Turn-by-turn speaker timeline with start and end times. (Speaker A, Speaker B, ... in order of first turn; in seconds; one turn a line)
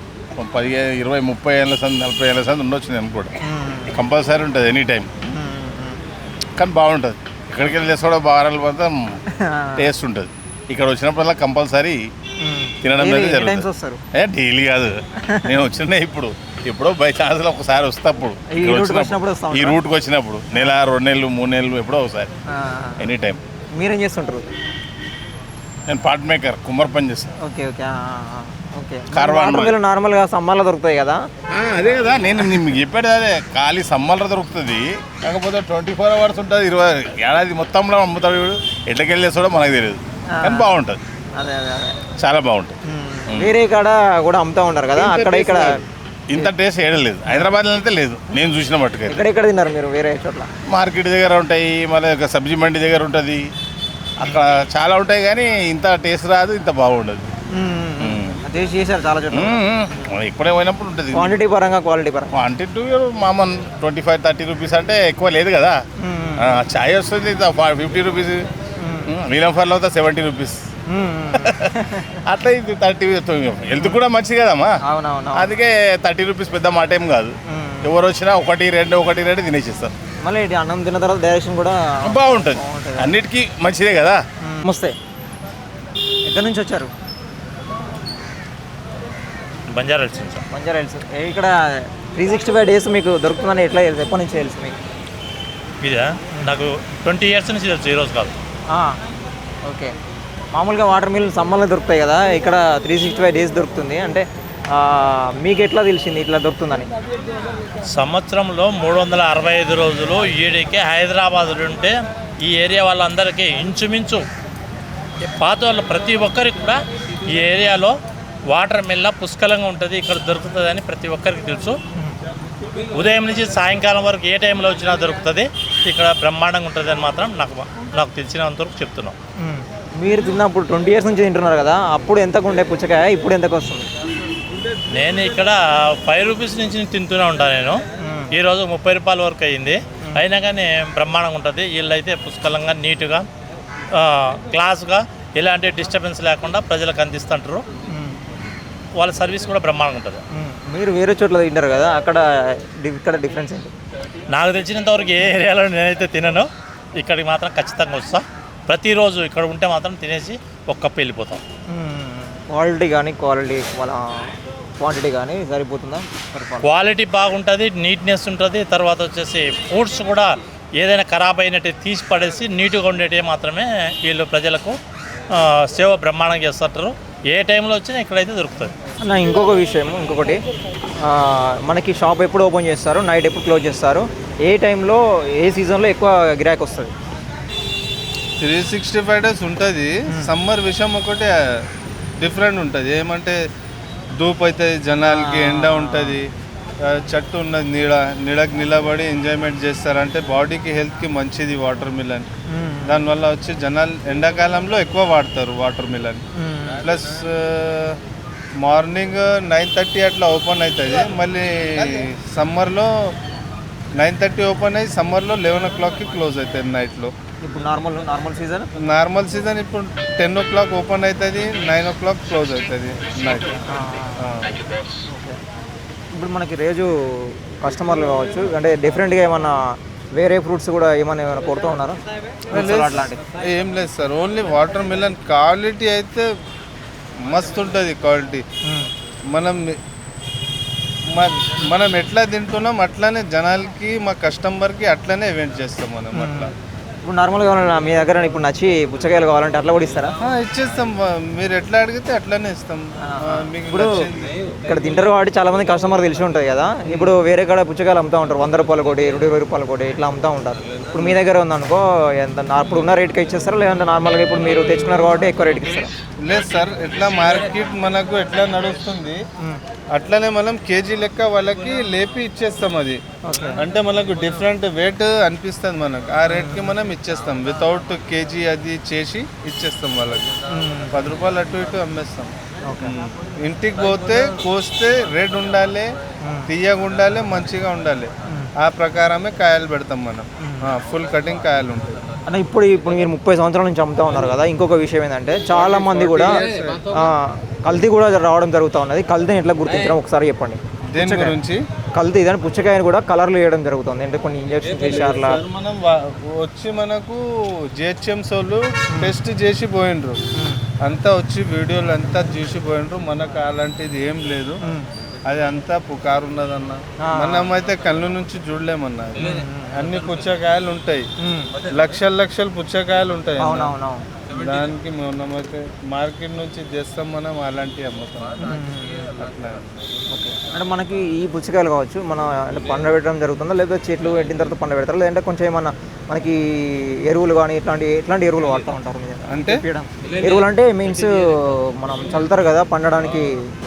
Speaker A: 0.4-3.4
Speaker B: 3.4-4.0
Speaker A: 3.9-5.1
Speaker B: 5.3-6.0
Speaker A: 6.6-9.2
Speaker B: 9.3-9.9
Speaker A: 9.8-12.1
Speaker B: 12.4-14.0
Speaker A: 12.8-22.3
Speaker B: 15.2-15.5
Speaker B: 18.5-19.8
Speaker B: 22.5-23.1
Speaker A: 23.0-23.4
Speaker B: 23.8-24.5
Speaker A: 25.9-27.3
Speaker B: 27.4-31.2
Speaker A: 29.1-29.8
Speaker A: 31.5-41.0
Speaker B: 40.3-40.7
Speaker B: 41.4-42.0
Speaker A: 42.2-42.8
Speaker B: 42.9-45.8
Speaker A: 43.3-43.5
Speaker A: 45.0-49.2
Speaker B: 49.1-50.5
Speaker A: 50.7-53.5
Speaker A: 54.2-57.3
Speaker B: 57.5-59.6
Speaker A: 58.0-58.4
Speaker A: 59.3-61.3
Speaker B: 61.1-62.3
Speaker A: 62.3-65.8
Speaker B: 66.0-66.6
Speaker A: 66.4-68.5
Speaker B: 68.8-69.1
Speaker A: 69.1-70.6
Speaker B: 70.9-72.2
Speaker A: 71.4-74.8
Speaker B: 74.8-75.5
Speaker A: 75.3-79.9
Speaker B: 77.5-77.9
Speaker B: 80.2-83.2
Speaker A: 82.0-84.2
Speaker B: 84.4-85.0
Speaker B: 86.3-86.9
Speaker C: 89.7-90.4
Speaker B: 90.5-94.8
Speaker C: 95.8-98.3
Speaker B: 98.7-99.0
Speaker B: 99.6-100.0
Speaker B: 100.5-106.9
Speaker C: 107.8-114.2
Speaker C: 115.2-118.0
Speaker C: 118.5-121.8
Speaker C: 122.9-129.2
Speaker B: 129.4-133.9
Speaker C: 134.9-143.2
Speaker B: 138.0-138.3
Speaker C: 143.9-147.7
Speaker B: 147.9-148.2
Speaker C: 149.0-150.2
Speaker B: 150.3-153.7
Speaker C: 154.3-161.4
Speaker B: 161.7-166.7
Speaker C: 166.6-174.8
Speaker C: 175.3-178.7
Speaker B: 179.0-180.4
Speaker B: 181.0-186.9
Speaker D: 188.4-191.6
Speaker D: 192.2-193.4
Speaker D: 194.2-196.2
Speaker B: 195.1-196.2
Speaker D: 196.8-202.3
Speaker B: 202.5-203.0
Speaker D: 202.9-206.2
Speaker B: 206.3-206.8
Speaker D: 206.8-208.0
Speaker D: 208.6-213.1
Speaker D: 214.0-217.1
Speaker B: 217.4-218.7
Speaker D: 218.8-223.6
Speaker B: 223.7-224.3
Speaker D: 224.2-224.6
Speaker B: 225.1-225.4
Speaker B: 226.1-233.2
Speaker D: 232.5-236.3
Speaker D: 237.2-238.4
Speaker B: 238.6-238.9
Speaker D: 239.3-239.8
Speaker D: 241.1-246.5
Speaker B: 246.1-246.5
Speaker B: 247.1-250.2
Speaker D: 250.2-254.4
Speaker B: 253.0-254.1
Speaker B: 254.6-265.9
Speaker D: 256.9-257.1
Speaker D: 260.9-261.2
Speaker D: 266.2-269.2
Speaker D: 269.9-273.0
Speaker B: 273.2-273.6
Speaker D: 273.6-280.3
Speaker B: 276.3-276.7
Speaker B: 280.5-281.0
Speaker D: 280.9-285.9
Speaker B: 282.7-282.9
Speaker D: 286.5-292.0
Speaker B: 290.4-290.7
Speaker B: 292.3-301.4
Speaker D: 295.8-297.0
Speaker D: 300.9-301.6
Speaker B: 301.9-305.4
Speaker D: 304.9-310.2
Speaker B: 310.3-310.6
Speaker D: 310.8-314.6
Speaker D: 315.3-321.1
Speaker B: 317.0-317.5
Speaker B: 319.2-319.9
Speaker B: 321.2-321.5
Speaker D: 321.7-323.7
Speaker B: 323.4-324.1
Speaker D: 324.3-328.6
Speaker B: 328.4-329.1
Speaker D: 329.2-329.9
Speaker B: 330.1-343.4
Speaker D: 339.3-339.6